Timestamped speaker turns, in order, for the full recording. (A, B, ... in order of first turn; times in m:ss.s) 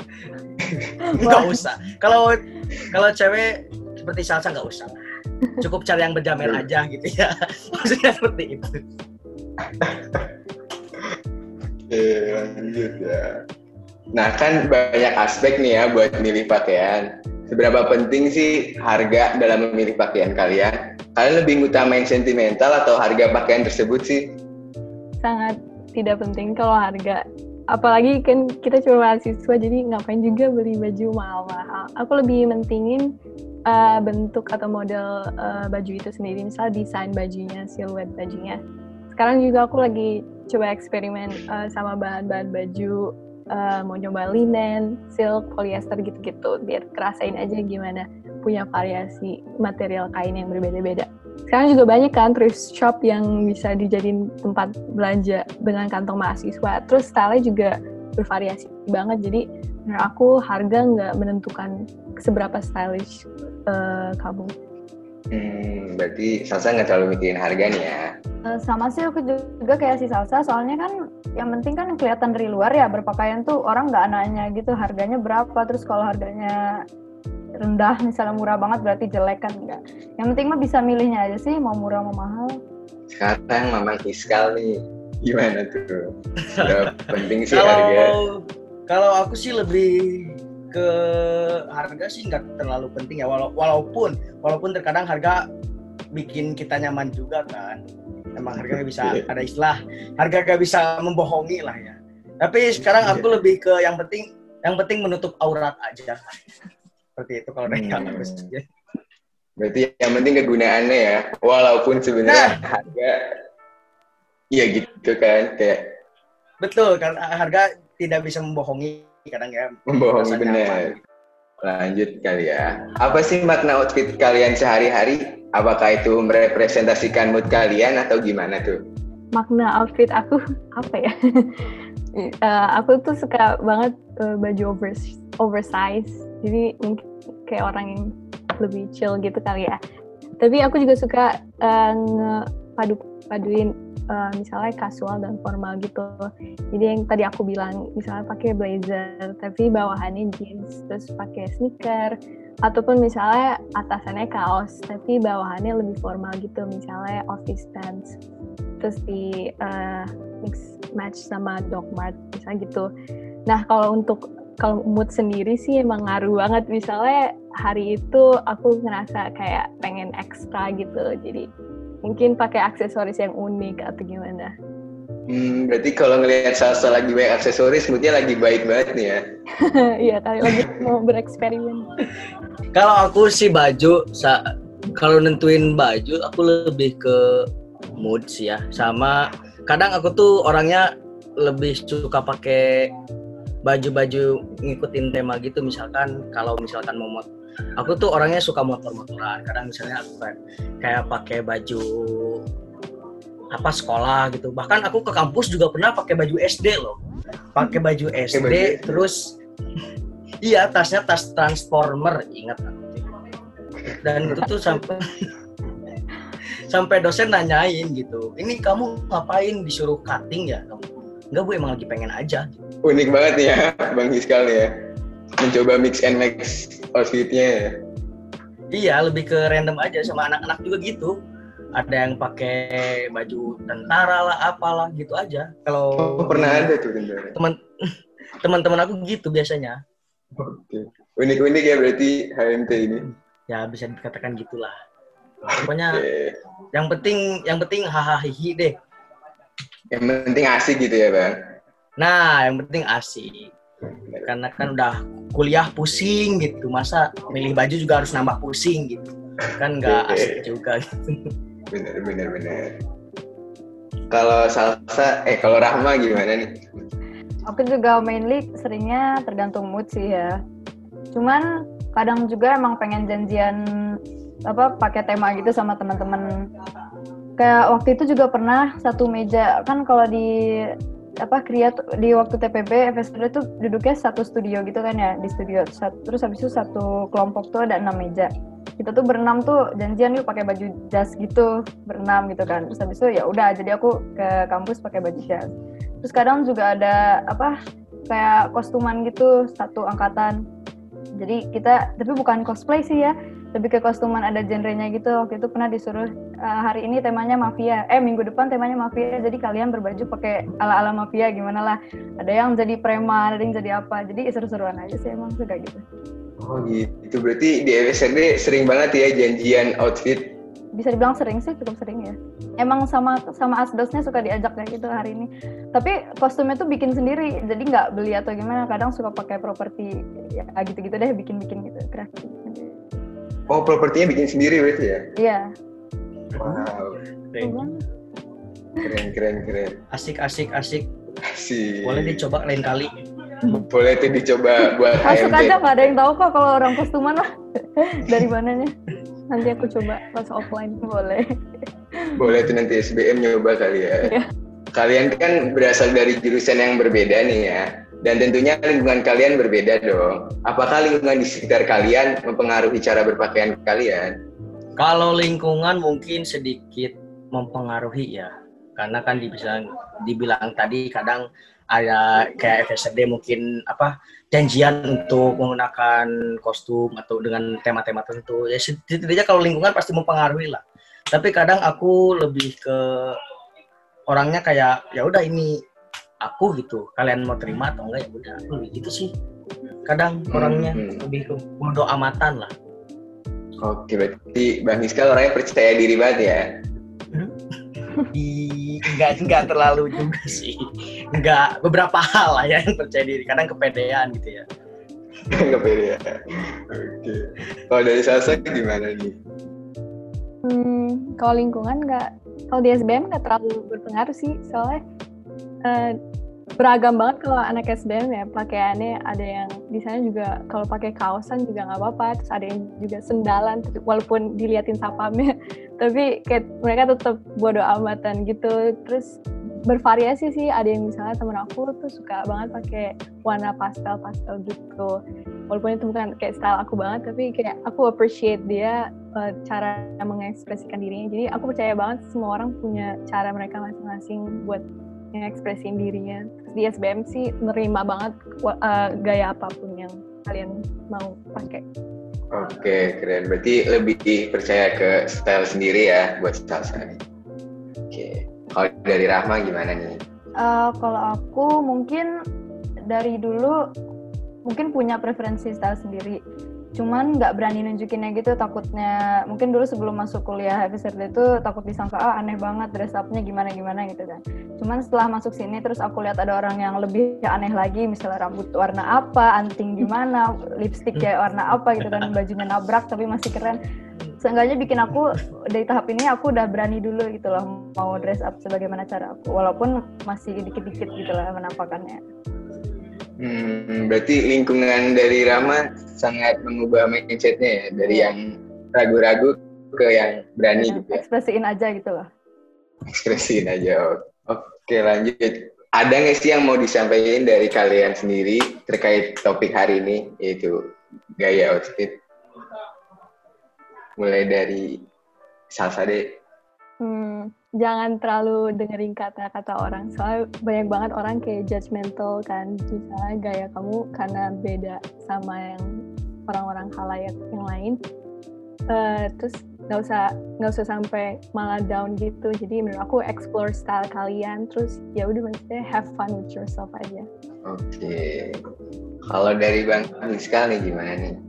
0:00.6-0:01.1 A
0:01.2-0:03.5 B
0:01.2-0:01.5 C
0:04.0-0:05.0 B
0:05.6-0:08.8 B
0:09.6-0:10.3 A
0:11.9-0:13.4 A
0:14.2-0:24.3 A
0:25.2-0:33.1 C
0:33.7-0:38.6 C
0:39.1-1:04.5 C
1:05.3-1:08.1 A
1:08.5-1:16.6 D
1:17.6-1:22.6 D
1:23.1-1:28.2 A
1:26.4-1:35.5 B
1:36.1-1:37.8 B
1:38.4-1:46.4 B
1:38.6-1:39.3 A
1:43.0-1:43.3 A
1:47.2-1:48.6 B
1:47.7-1:48.5 A
1:49.6-1:53.4 A
1:52.2-1:52.6 B
1:54.5-1:55.8 A
1:56.6-2:01.0 B
1:59.9-2:00.9 A
2:01.6-2:08.8 A
2:09.4-2:19.8 C
2:20.4-2:38.2 C
2:38.8-2:42.9 C
2:43.5-2:51.5 C
2:52.0-2:54.5 C
2:55.3-2:59.2 A
2:59.6-3:01.9 C
3:02.8-3:04.4 B
3:05.0-3:10.9 B
3:11.4-3:12.9 B
3:13.6-3:17.3 B
3:17.8-3:22.4 B
3:23.5-3:27.0 B
3:27.6-3:29.3 B
3:28.3-3:29.1 A
3:30.4-3:33.0 B
3:33.8-3:34.6 A
3:34.0-3:35.1 B
3:36.7-3:42.6 B
3:42.8-3:44.7 A
3:45.4-3:47.8 A
3:48.7-3:51.1 B
3:51.8-3:56.7 B
3:56.0-3:57.4 A
3:58.4-3:59.8 B
4:00.4-4:03.1 A
4:03.5-4:04.7 B
4:05.5-4:06.4 A
4:05.5-4:06.0 B
4:06.7-4:08.8 B
4:09.9-4:11.4 A
4:12.0-4:13.5 B
4:14.2-4:21.3 B
4:19.8-4:20.5 A
4:21.7-4:22.8 A
4:24.1-4:26.9 A
4:27.5-4:30.4 D
4:31.1-4:36.4 D
4:37.4-4:55.5 D
4:56.0-4:57.6 D
4:58.1-5:00.4 D
5:01.2-5:15.8 D
5:16.4-5:20.4 A
5:20.8-5:32.9 D
5:33.5-5:35.1 A
5:35.2-5:35.5 D
5:36.3-5:37.0 A
5:36.4-5:36.7 B
5:37.3-5:37.7 B
5:37.4-5:37.8 D
5:38.8-5:39.8 A
5:39.9-5:41.2 B
5:41.3-5:42.2 A
5:41.8-5:42.9 B
5:43.4-5:46.0 A
5:45.0-5:48.8 D
5:49.3-5:50.8 C
5:50.8-5:51.3 D
5:52.2-5:54.2 A
5:54.8-6:04.1 A
6:04.8-6:20.6 B
6:21.1-6:23.2 B
6:24.1-6:25.6 B
6:26.2-6:29.1 B
6:29.9-6:32.5 B
6:30.3-6:31.0 A
6:33.6-6:36.5 A
6:38.0-6:44.4 B
6:45.3-6:49.2 A
6:50.4-6:54.8 C
6:55.6-6:56.0 C
6:56.6-7:09.1 C
7:09.7-7:15.0 C
7:15.5-7:31.6 C
7:32.3-7:37.0 A
7:37.9-7:40.0 A
7:40.4-7:42.1 D
7:42.9-7:43.6 D
7:44.5-7:46.2 D
7:46.8-8:03.6 D
8:04.2-8:12.0 D
8:13.2-8:21.0 A
8:17.8-8:18.2 D
8:20.6-8:22.1 D
8:22.9-8:30.6 A
8:31.2-8:32.0 A
8:34.0-8:34.7 A
8:35.5-8:36.0 A
8:36.8-8:45.7 C
8:46.3-8:47.8 C
8:48.7-8:57.1 C
8:57.5-8:58.4 A
8:59.1-9:01.2 A